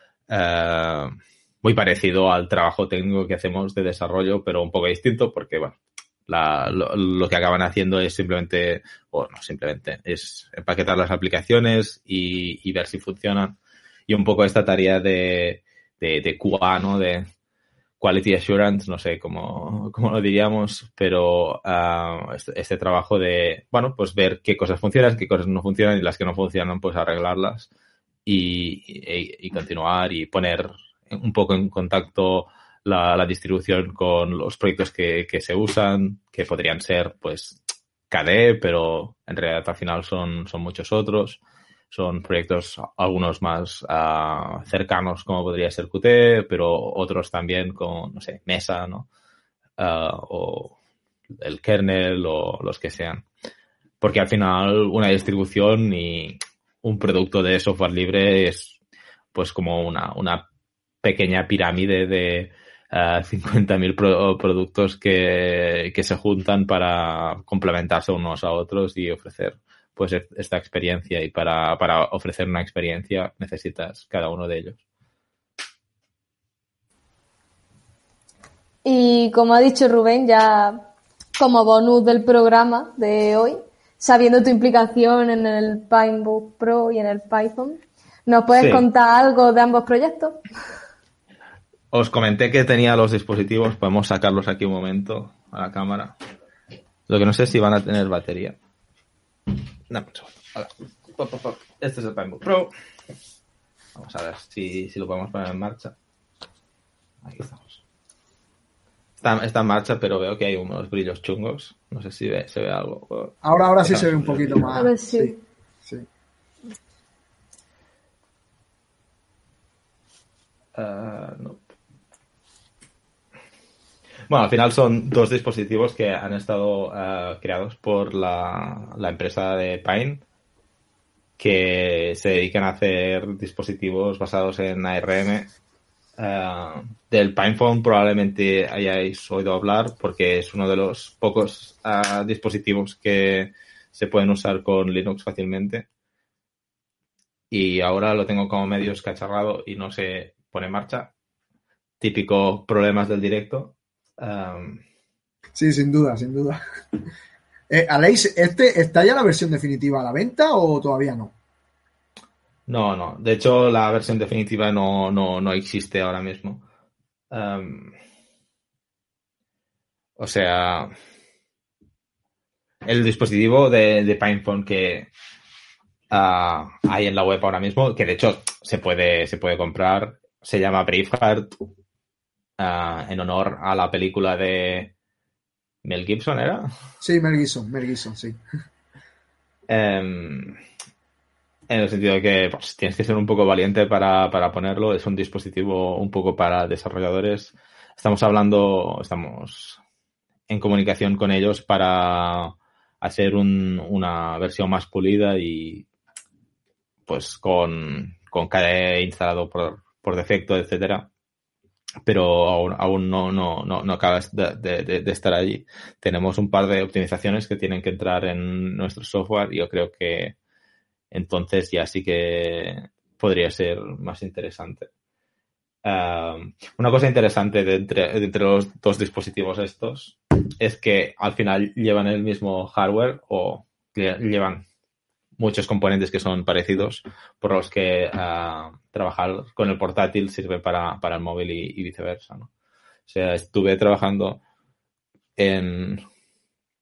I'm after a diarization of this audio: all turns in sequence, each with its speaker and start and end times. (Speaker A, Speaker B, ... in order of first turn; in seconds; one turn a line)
Speaker A: 0.3-13.6
Speaker A: 14.1-17.2
Speaker A: 18.0-27.7
Speaker A: 28.2-41.4
Speaker A: 41.9-49.1
Speaker A: 49.8-50.7
Speaker A: 51.4-53.2
Speaker A: 54.0-58.8
Speaker A: 59.3-60.4
Speaker A: 61.0-74.8
Speaker B: 78.8-80.8
Speaker B: 81.4-90.4
Speaker A: 88.5-88.8
Speaker A: 91.9-96.1
Speaker A: 97.1-98.5
Speaker A: 99.9-102.7
Speaker A: 104.0-105.9
Speaker A: 107.2-107.8
Speaker A: 109.2-114.7
Speaker C: 113.4-116.0
Speaker B: 114.7-115.4
Speaker A: 120.7-121.7
Speaker A: 124.3-130.2
Speaker A: 131.4-135.5
Speaker A: 136.2-145.9
Speaker A: 147.5-151.1
Speaker A: 152.0-154.8
Speaker C: 155.6-156.6
Speaker C: 157.7-161.3
Speaker A: 162.7-166.6
Speaker A: 167.3-167.9
Speaker A: 170.2-170.9
Speaker A: 172.8-175.1
Speaker A: 176.1-181.6
Speaker A: 182.6-184.9
Speaker A: 185.8-186.7
Speaker C: 187.0-188.4
Speaker A: 189.7-190.6
Speaker A: 191.7-199.8
Speaker A: 200.5-205.8
Speaker A: 207.1-211.1
Speaker A: 212.0-220.3
Speaker A: 221.1-224.9
Speaker A: 225.8-234.6
Speaker A: 235.4-242.5
Speaker A: 243.1-244.4
Speaker A: 245.4-246.0